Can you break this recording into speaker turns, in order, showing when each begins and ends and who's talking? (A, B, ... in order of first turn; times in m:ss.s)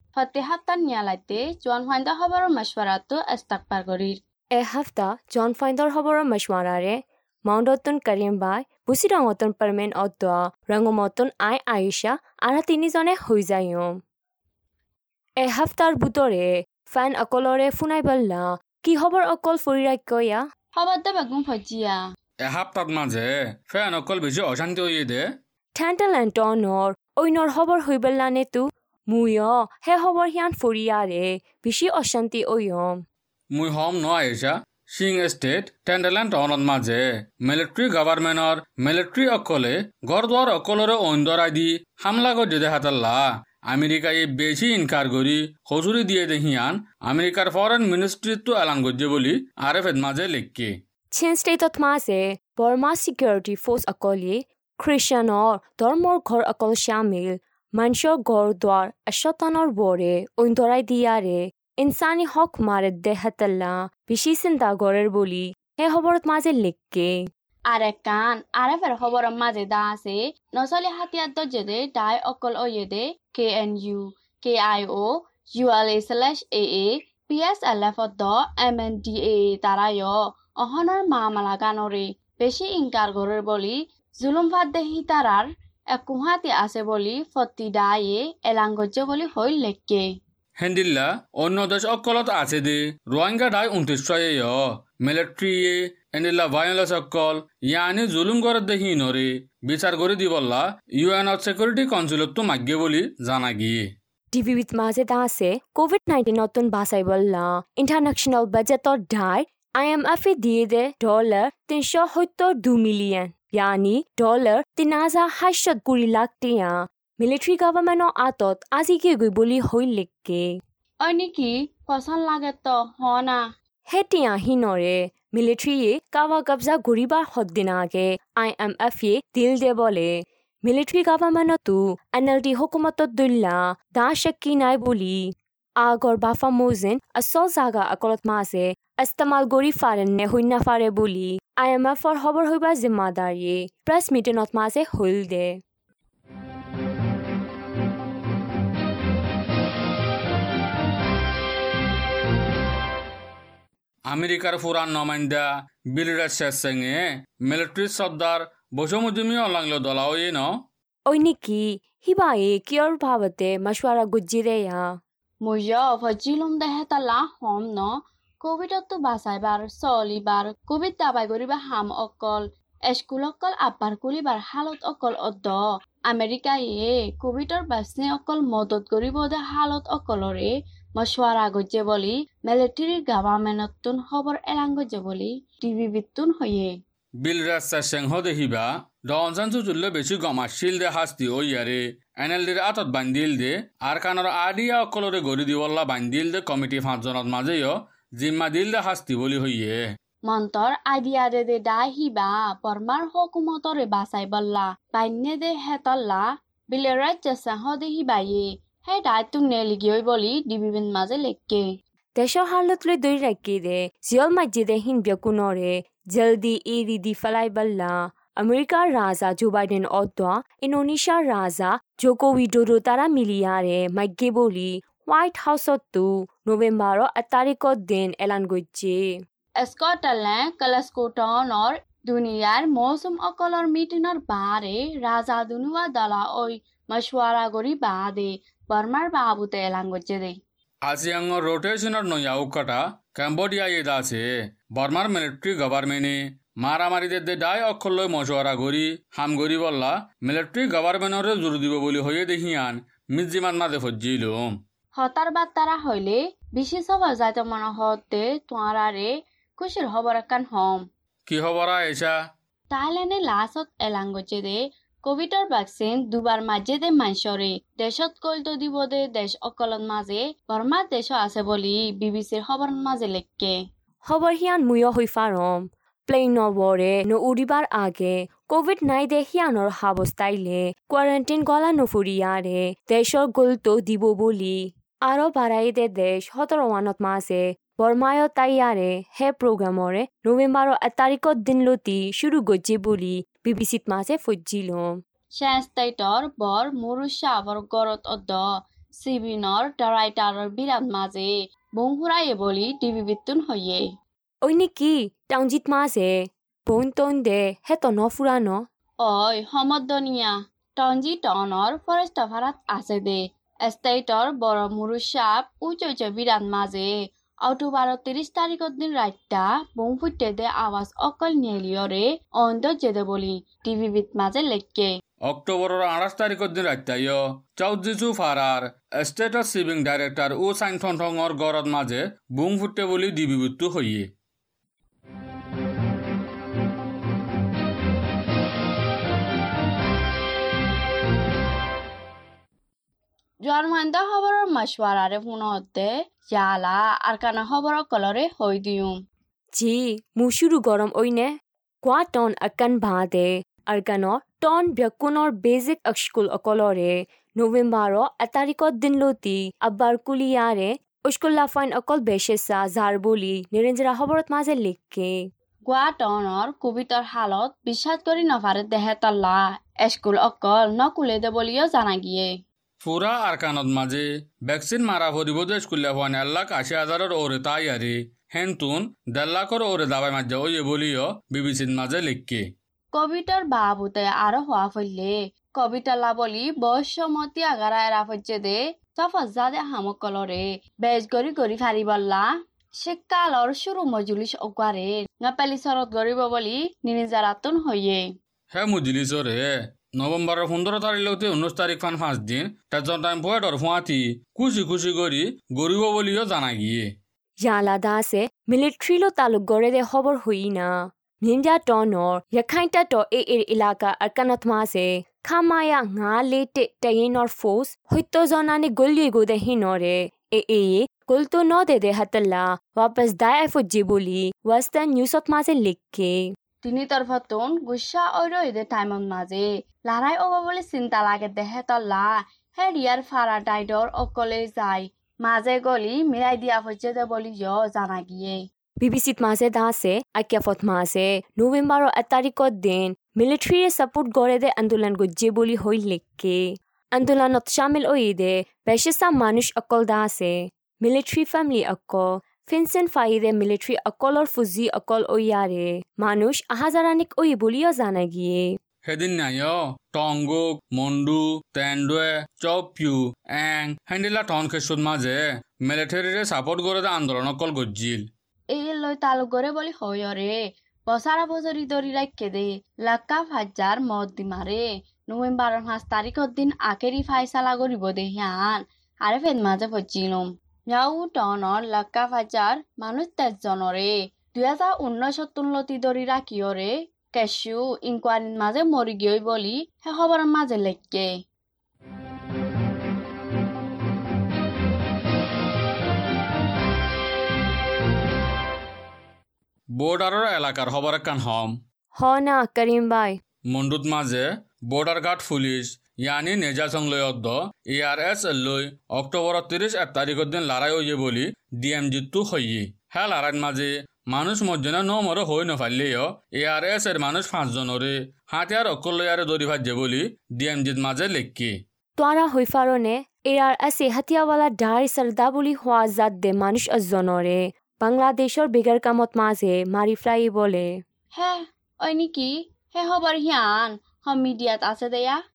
0:00.2-0:04.2 A
0:04.5-0:14.0 B
0:15.4-0:20.4 B
0:20.7-0:22.0 A
0:22.4-0:25.2 C
0:25.8-0:33.0 B
0:33.5-0:50.8 C
0:51.1-1:07.2 B
1:07.7-1:30.0 A
1:30.6-1:43.8 C
1:44.3-2:00.5 B
2:01.0-2:03.4 A
2:03.9-2:25.6 B
2:34.1-2:40.5 C
2:41.1-2:44.9 B
2:45.4-3:06.7 A
3:07.2-3:19.8 C
3:20.2-3:31.6 A
3:32.2-3:49.1 B
3:49.6-4:00.4 A
4:00.8-4:14.6 C
4:14.9-4:20.8 A
4:21.3-4:22.2 C
4:22.7-4:33.6 A
4:34.0-4:55.0 B
4:55.3-5:03.9 A
5:04.4-5:08.6 B
5:09.0-5:16.9 A
5:17.4-5:24.9 A
5:25.2-5:34.1 C
5:43.4-5:48.9 A
5:49.6-6:05.2 B
6:05.6-6:12.3 A
6:12.8-6:22.4 C
6:22.9-6:38.1 A
6:38.5-6:46.9 C
6:47.4-7:06.2 B
7:06.6-7:18.4 A
7:18.8-7:38.5 B
7:38.8-7:48.1 C
7:48.5-8:11.1 A
8:19.8-8:21.6 C
8:22.0-8:23.2 B
8:23.5-8:41.6 C
8:42.0-8:50.7 B
8:51.1-8:55.2 A